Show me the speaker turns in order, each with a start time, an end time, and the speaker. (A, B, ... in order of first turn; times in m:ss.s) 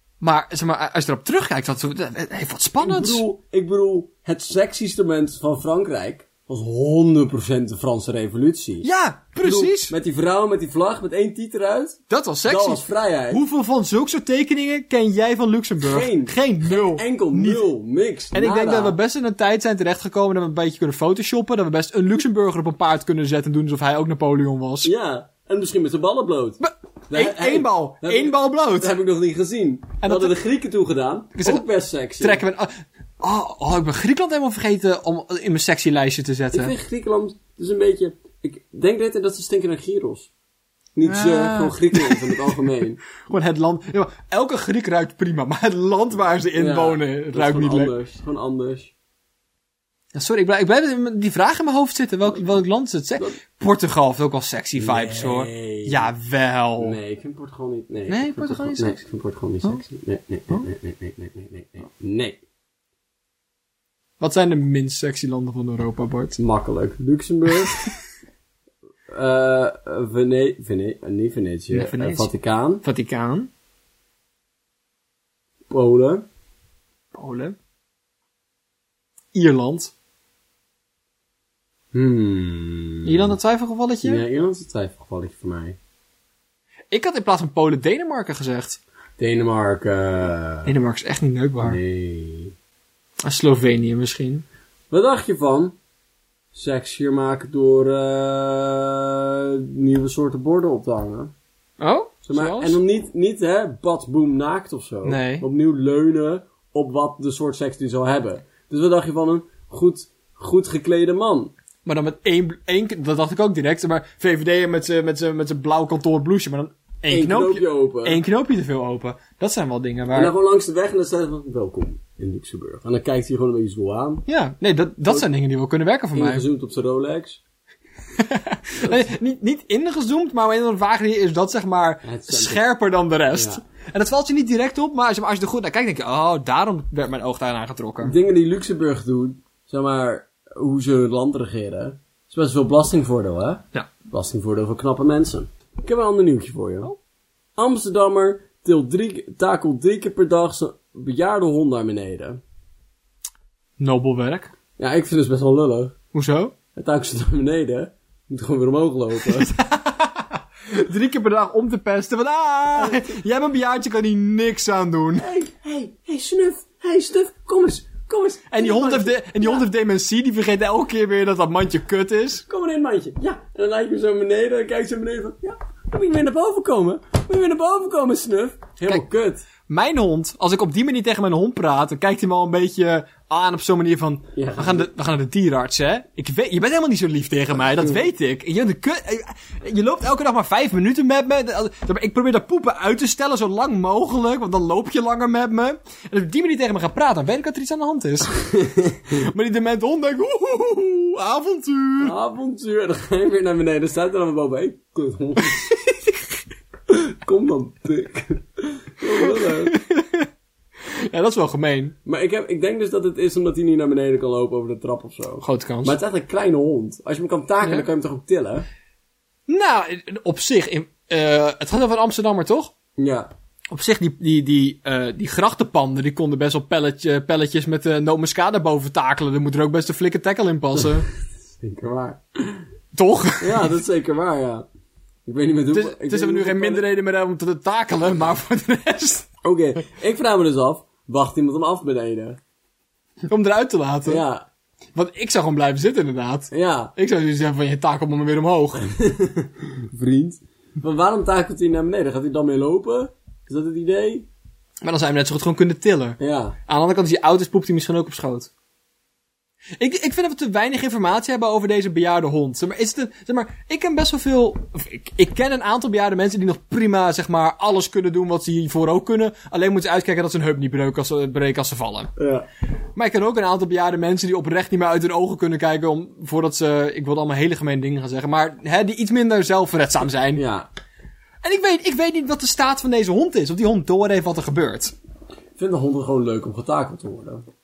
0:00.2-0:03.2 A
0:02.8-0:08.9 B
0:08.8-0:09.9 A
0:09.4-0:13.4 B
0:12.1-0:17.6 A
0:15.8-0:19.0 B
0:18.3-0:24.9 A
0:24.8-0:32.4 B
0:26.6-0:28.9 A
0:30.0-0:30.4 A
0:31.4-0:31.7 A
0:32.2-0:36.7 A
0:36.5-0:40.3 B
0:41.0-0:43.0 B
0:41.0-0:42.6 A
0:43.2-0:47.9 A
0:46.6-0:48.9 B
0:50.1-0:57.0 A
0:54.8-0:56.1 B
0:56.8-1:02.4 B
0:58.1-0:59.0 A
1:04.2-1:06.4 A
1:06.4-1:07.8 B
1:09.1-1:12.8 B
1:11.7-1:12.3 A
1:12.8-1:13.5 A
1:15.7-1:16.3 B
1:17.1-1:17.6 A
1:19.3-1:19.9 A
1:21.9-1:23.4 B
1:23.0-1:24.2 A
1:24.0-1:25.8 B
1:26.9-1:28.8 A
1:29.2-1:30.7 B
1:30.7-1:31.8 A
1:31.6-1:32.5 B
1:33.2-1:34.4 A
1:34.9-1:35.8 B
1:36.5-1:41.3 B
1:41.8-1:42.8 A
1:42.3-1:51.5 B
1:45.0-1:45.5 A
1:51.8-2:00.3 A
1:57.1-1:58.2 B
2:00.1-2:04.2 B
2:04.3-2:06.4 A
2:06.1-2:07.4 B
2:08.2-2:18.1 A
2:08.8-2:09.1 B
2:12.0-2:12.6 B
2:13.3-2:13.6 B
2:18.0-2:26.9 B
2:27.6-2:32.4 B
2:33.8-2:34.5 A
2:34.8-2:36.0 B
2:36.1-2:36.5 A
2:36.8-2:39.6 B
2:39.2-2:45.3 A
2:45.2-2:49.6 B
2:48.5-2:52.4 A
2:52.5-2:59.5 B
2:59.7-3:18.3 A
3:04.4-3:04.9 B
3:18.5-3:19.1 B
3:19.1-3:22.1 A
3:22.0-3:25.7 B
3:25.4-3:26.2 A
3:26.9-3:29.7 B
3:29.2-3:30.3 A
3:30.8-3:32.0 A
3:32.0-3:38.7 B
3:35.4-3:36.0 A
3:39.5-3:42.7 A
3:43.0-3:43.3 B
3:43.7-3:51.1 A
3:51.6-3:52.6 B
3:52.9-3:53.7 A
3:53.4-3:54.7 B
3:55.3-3:56.8 B
3:55.7-3:59.3 A
3:59.4-4:02.4 B
4:03.3-4:04.2 A
4:04.1-4:04.5 B
4:05.0-4:08.8 A
4:06.5-4:06.9 B
4:08.8-4:14.3 B
4:14.8-4:18.5 A
4:16.2-4:16.6 B
4:19.8-4:32.1 A
4:32.2-4:32.5 B
4:33.0-4:40.4 A
4:40.4-4:40.7 B
4:41.4-4:45.0 A
4:45.6-4:47.4 B